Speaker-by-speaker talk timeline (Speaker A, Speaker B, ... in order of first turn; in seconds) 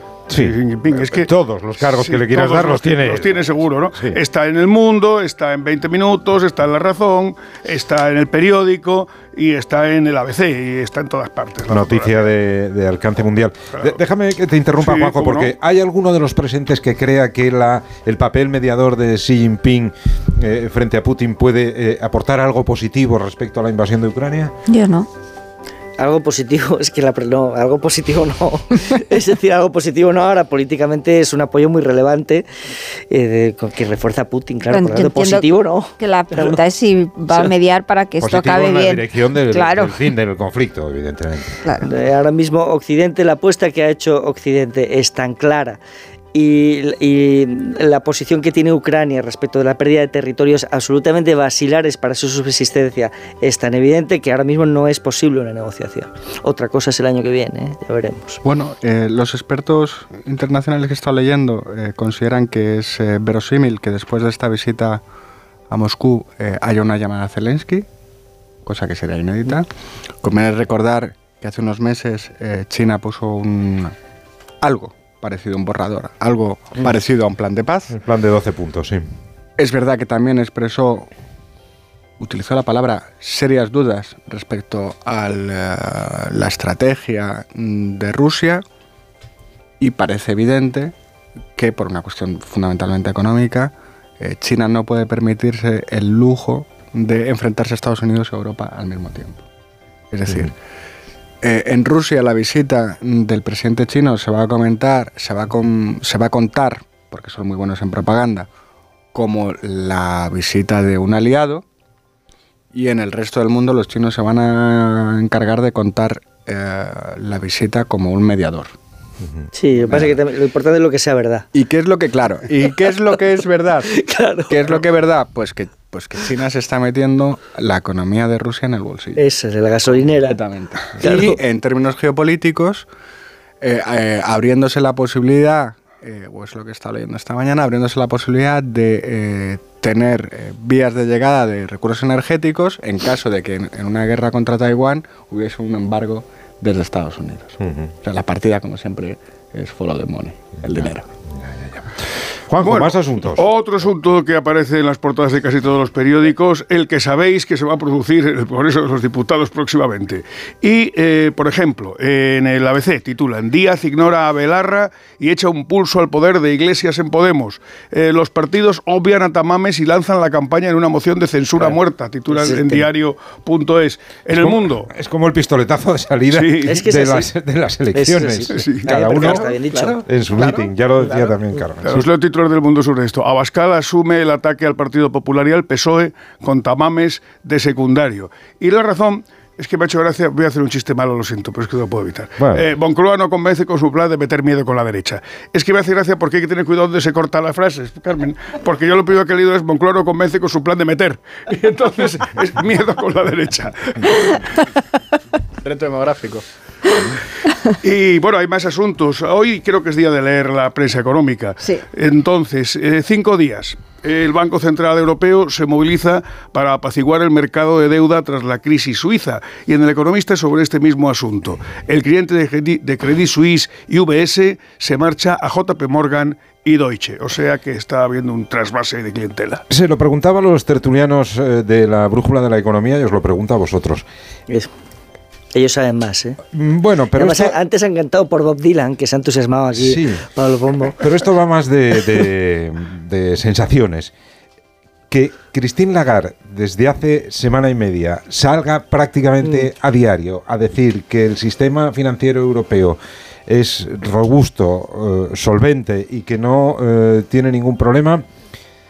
Speaker A: 0.3-4.2, 11.7-24.5, 38.2-41.6, 77.9-79.0, 147.6-147.9, 150.7-153.5, 174.3-179.5, 180.1-182.1, 192.4-192.7, 229.7-234.1, 236.5-237.6, 239.8-240.2, 241.0-244.1, 245.1-258.2
Speaker B: 0.3-1.3, 1.9-12.2, 14.8-15.5, 152.6-174.9, 176.3-176.7, 178.6-178.8, 181.8-201.2, 202.3-204.0, 207.8-229.6
Speaker C: 24.7-25.1, 34.7-40.0, 41.6-41.9
Speaker D: 26.0-32.5, 33.1-36.5, 41.8-45.8, 46.3-58.4, 119.5-121.5, 123.9-124.8, 129.2-130.4, 131.0-131.4, 172.3-172.9, 176.6-177.3, 177.9-180.0, 235.5-236.4, 237.2-241.0, 249.4-249.7
Speaker E: 58.4-65.0, 65.7-67.9, 68.7-69.7, 70.2-73.9, 74.6-77.9, 79.6-81.1, 82.2-88.6, 89.8-90.9, 91.5-99.4, 100.1-100.5, 101.4-108.5, 109.1-111.6, 112.7-118.7, 121.5-123.9, 124.5-129.2, 130.2-132.9, 133.6-151.1, 179.1-181.4, 201.5-202.3, 205.6-206.4